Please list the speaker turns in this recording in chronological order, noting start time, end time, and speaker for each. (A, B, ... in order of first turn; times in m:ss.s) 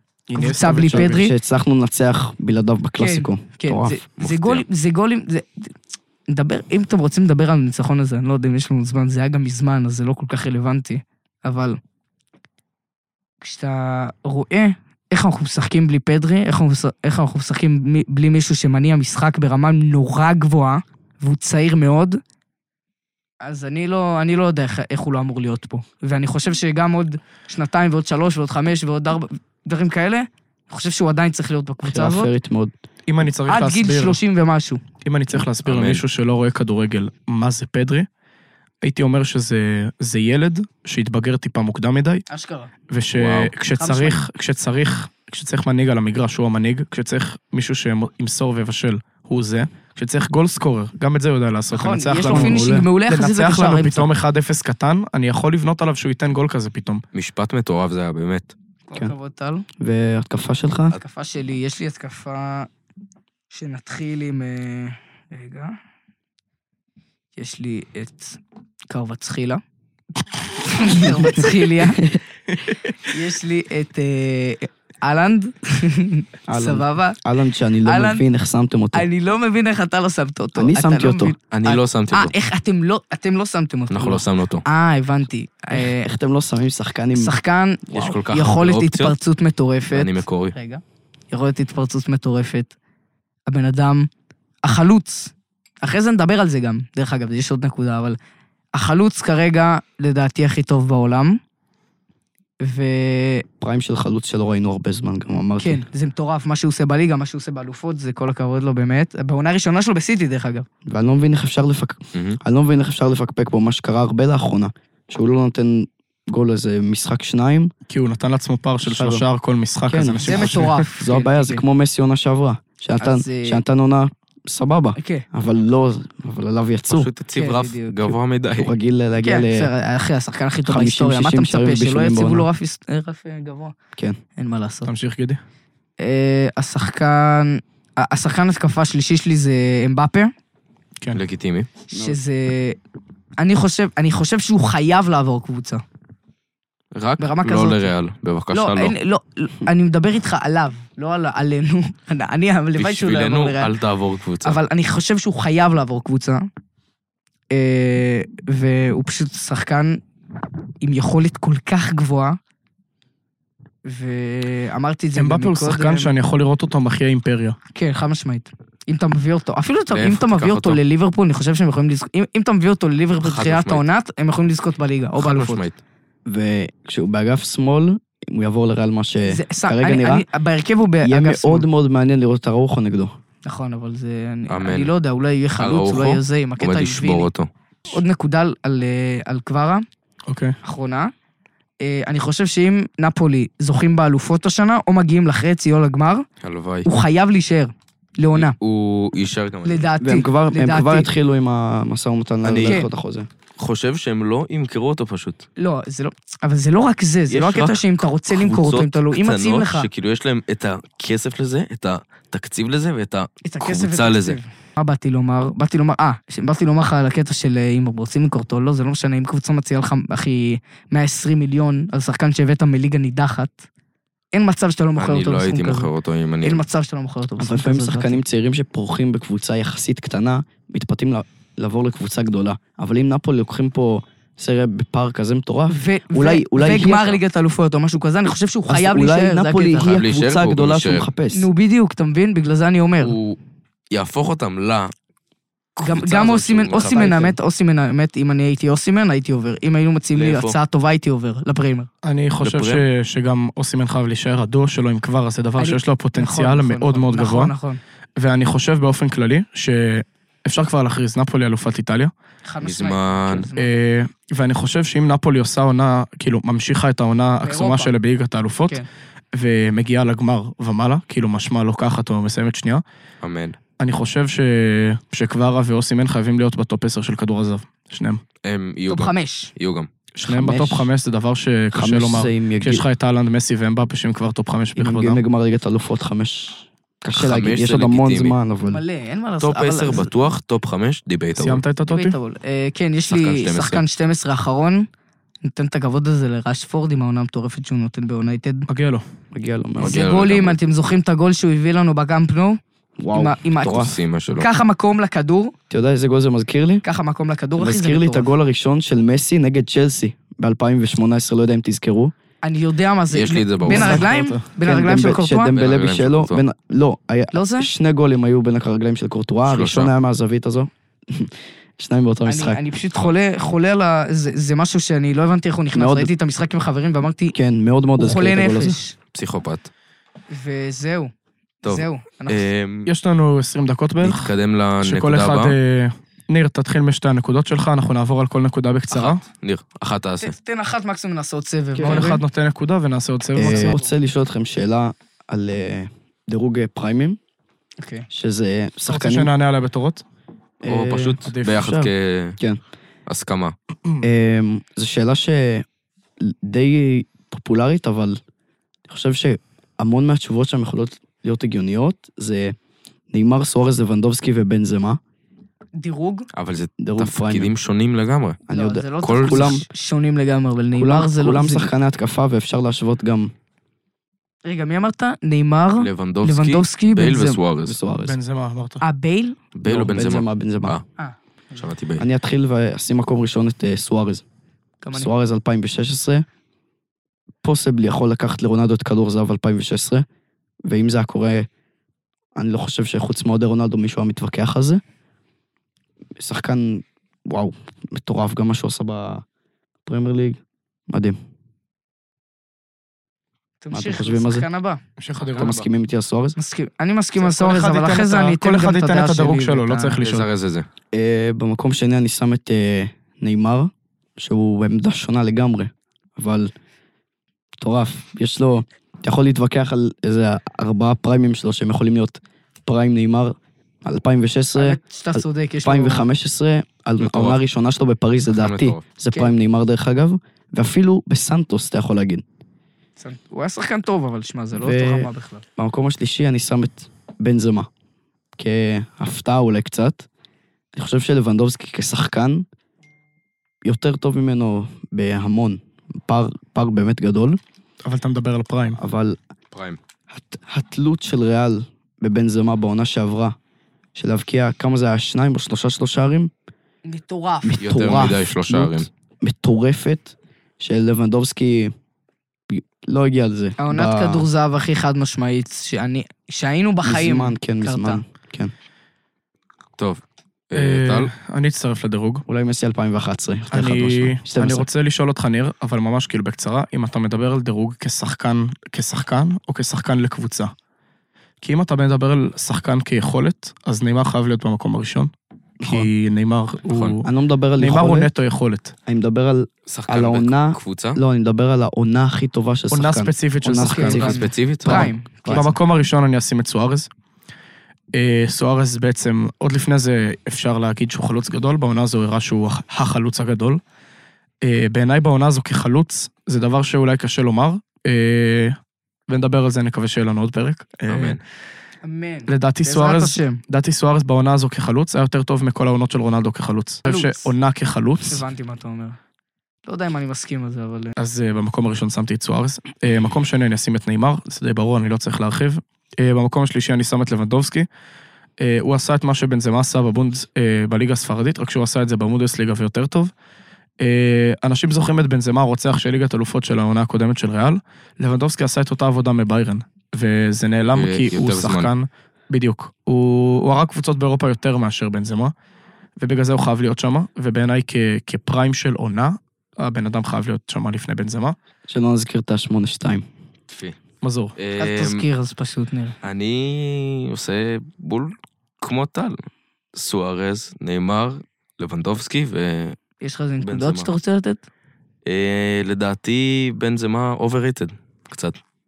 0:00.3-0:01.3 A
0:00.4-0:01.3 B
0:00.8-0:04.0 C
0:03.0-0:05.7 B
0:04.2-0:04.6 D
0:06.3-0:11.8 B
0:13.4-0:22.2 B
0:23.4-0:32.3 B
0:31.8-0:32.7 C
0:33.1-0:34.2 A
0:33.5-0:34.8 B
0:35.0-0:38.1 A
0:35.6-0:36.0 D
0:38.8-0:42.2 A
0:42.3-0:42.7 B
0:42.9-0:57.0 A
0:43.1-0:43.5 D
0:43.8-0:44.2 B
0:51.7-0:54.1 B
0:52.2-0:52.9 C
0:57.1-0:58.5 D
0:58.9-0:59.6 B
0:59.8-1:01.0 C
1:01.0-1:02.7 B
1:03.5-1:05.8 B
1:07.4-1:09.6 B
1:10.3-1:12.0 B
1:11.0-1:12.2 C
1:13.0-1:17.2 B
1:16.5-1:19.1 C
1:17.8-1:18.2 B
1:18.9-1:26.1 B
1:20.6-1:21.3 C
1:21.5-1:22.3 D
1:23.9-1:24.6 D
1:25.7-1:27.3 C
1:27.1-1:32.7 B
1:27.9-1:29.1 D
1:29.9-1:30.5 D
1:33.5-1:34.1 B
1:34.6-1:38.2 B
1:38.7-1:41.4 B
1:42.6-1:43.4 B
1:43.6-1:45.8 C
1:45.6-1:50.6 B
1:50.8-1:57.7 C
1:52.1-1:52.4 D
1:57.9-2:00.8 A
1:58.8-1:59.2 C
1:59.8-2:07.1 C
2:00.2-2:01.6 B
2:03.0-2:03.6 B
2:05.0-2:05.2 B
2:06.9-2:08.7 D
2:07.3-2:08.2 B
2:08.6-2:09.7 C
2:09.2-2:13.7 B
2:10.7-2:12.5 C
2:14.4-2:14.9 B
2:14.8-2:15.4 A
2:16.0-2:20.3 B
2:21.1-2:21.7 D
2:21.9-2:22.8 B
2:21.9-2:22.2 C
2:23.4-2:25.8 B
2:26.9-2:28.9 D
2:27.2-2:27.9 B
2:28.5-2:33.7 B
2:32.8-2:34.6 D
2:34.4-2:36.5 B
2:37.5-2:40.0 B
2:40.8-2:42.4 B
2:43.8-2:46.1 B
2:45.1-2:47.6 A
2:47.7-2:55.6 B
2:49.9-2:50.8 D
2:53.2-2:53.8 D
2:55.2-2:55.8 D
2:56.2-3:00.2 C
2:59.2-3:01.6 B
3:01.0-3:03.1 C
3:03.4-3:07.3 B
3:04.5-3:04.9 D
3:05.6-3:07.5 D
3:07.9-3:09.8 B
3:10.3-3:10.6 A
3:10.6-3:11.1 B
3:11.8-3:16.2 B
3:16.4-3:16.9 D
3:16.8-3:18.5 B
3:18.3-3:19.9 D
3:19.6-3:21.1 B
3:20.0-3:23.3 C
3:22.4-3:22.8 D
3:23.6-3:25.4 D
3:25.6-3:29.9 B
3:27.3-3:34.4 D
3:33.4-3:43.6 B
3:44.3-3:45.9 B
3:45.0-3:46.6 D
3:46.4-3:48.2 B
3:47.4-3:57.2 C
3:55.7-3:59.9 B
3:58.7-4:01.5 C
3:59.8-4:01.1 D
4:01.3-4:03.2 B
4:03.0-4:03.4 D
4:03.9-4:04.9 D
4:05.8-4:11.9 B
4:05.8-4:07.3 D
4:06.8-4:07.4 C
4:10.1-4:10.6 D
4:12.0-4:17.5 A
4:12.4-4:12.8 D
4:15.6-4:17.8 B
4:18.2-4:22.1 A
4:22.4-4:23.7 B
4:22.6-4:23.5 D
4:23.5-4:32.8 A
4:27.4-4:27.9 B
4:33.2-4:33.6 D
4:33.8-4:38.2 A
4:38.4-4:39.9 D
4:38.9-4:39.5 B
4:40.1-4:45.2 A
4:40.2-4:40.9 C
4:41.7-4:42.8 C
4:44.8-4:48.8 C
4:47.1-4:48.4 D
4:48.7-4:50.1 B
4:49.4-4:51.6 D
4:51.4-4:52.2 A
4:51.8-4:54.9 B
4:53.1-4:53.8 D
4:55.4-4:58.7 B
4:58.7-4:59.0 A
4:59.3-5:00.0 C
4:59.8-5:00.6 D
4:59.8-5:02.6 B
5:03.0-5:04.0 C
5:03.1-5:05.5 B
5:03.6-5:04.5 D
5:05.7-5:06.8 C
5:06.8-5:08.3 B
5:07.6-5:12.1 C
5:12.4-5:15.5 B
5:13.1-5:14.0 D
5:13.6-5:14.4 A
5:14.6-5:22.6 C
5:15.5-5:16.4 D
5:17.3-5:17.7 B
5:19.4-5:19.9 D
5:22.2-5:27.4 B
5:25.7-5:26.1 C
5:27.3-5:28.8 C
5:28.0-5:29.0 B
5:29.1-5:29.7 D
5:30.3-5:31.1 B
5:31.6-5:32.9 D
5:31.6-5:32.5 B
5:32.9-5:39.2 A
5:34.0-5:35.5 D
5:38.9-5:40.3 D
5:40.2-5:42.2 B
5:41.8-5:42.1 C
5:41.8-5:43.8 A
5:43.3-5:47.2 C
5:43.4-5:43.9 B
5:47.8-5:48.0 B
5:48.1-5:49.3 C
5:48.9-5:50.0 A
5:50.6-5:52.6 C
5:50.6-5:52.4 D
5:51.2-5:51.8 A
5:53.1-5:53.5 D
5:54.0-5:55.6 C
5:56.2-5:58.2 C
5:58.9-6:02.5 C
6:03.1-6:05.0 C
6:05.8-6:06.3 B
6:06.3-6:08.4 D
6:06.8-6:07.5 C
6:08.5-6:09.6 C
6:08.5-6:11.7 B
6:09.0-6:09.6 D
6:10.8-6:13.3 C
6:14.4-6:17.4 B
6:15.8-6:17.8 D
6:17.6-6:18.2 C
6:18.0-6:18.8 A
6:18.8-6:19.4 B
6:19.5-6:20.8 D
6:19.6-6:20.8 C
6:21.0-6:21.6 B
6:21.6-6:22.0 D
6:22.0-6:24.2 C
6:24.8-6:25.1 B
6:24.9-6:26.2 C
6:27.4-6:30.0 C
6:30.6-6:31.5 C
6:32.3-6:34.8 C
6:36.2-6:39.2 C
6:39.8-6:41.2 C
6:43.6-6:44.8 B
6:43.7-6:44.4 C
6:45.0-6:45.7 A
6:45.4-6:46.4 C
6:46.4-6:50.0 B
6:47.2-6:50.3 A
6:50.0-6:50.6 D
6:50.9-6:56.5 C
6:57.6-7:12.2 C
7:04.5-7:06.1 B
7:07.0-7:07.4 D
7:08.4-7:08.8 D
7:13.0-7:15.4 B
7:14.5-7:17.7 C
7:18.4-7:20.0 C
7:20.7-7:22.4 C
7:23.6-7:27.4 C
7:27.8-7:28.8 A
7:28.8-7:29.2 C
7:29.5-7:29.8 D
7:30.1-7:33.4 C
7:33.9-7:36.3 C
7:36.8-7:37.6 B
7:37.4-7:41.7 C
7:37.6-7:38.9 D
7:42.5-7:44.3 C
7:43.6-7:48.0 B
7:46.8-7:48.5 C
7:49.8-7:51.1 D
7:50.5-7:52.2 A
7:52.3-7:54.7 C
7:53.5-8:00.5 A
8:01.4-8:08.7 A
8:05.6-8:05.9 C
8:06.7-8:07.0 D
8:07.0-8:08.1 C
8:08.8-8:15.5 C
8:09.7-8:11.0 D
8:12.7-8:14.1 A
8:13.6-8:15.5 B
8:14.0-8:14.9 D
8:14.7-8:16.9 A
8:17.9-8:23.6 A
8:24.4-8:31.2 A
8:30.9-8:31.2 D
8:31.8-8:33.4 B
8:32.3-8:38.2 A
8:36.8-8:37.3 B
8:38.0-8:39.0 B
8:39.6-8:40.9 B
8:41.0-8:47.7 A
8:48.4-8:53.1 A
8:53.8-9:05.3 A
9:00.7-9:01.7 D
9:06.0-9:11.4 A
9:11.7-9:13.0 C
9:13.5-9:13.8 D
9:14.0-9:14.3 A
9:14.4-9:15.0 D
9:14.6-9:16.0 B
9:16.0-9:19.2 D
9:19.7-9:22.8 D
9:23.0-9:24.4 B
9:23.4-9:23.9 D
9:25.0-9:28.4 D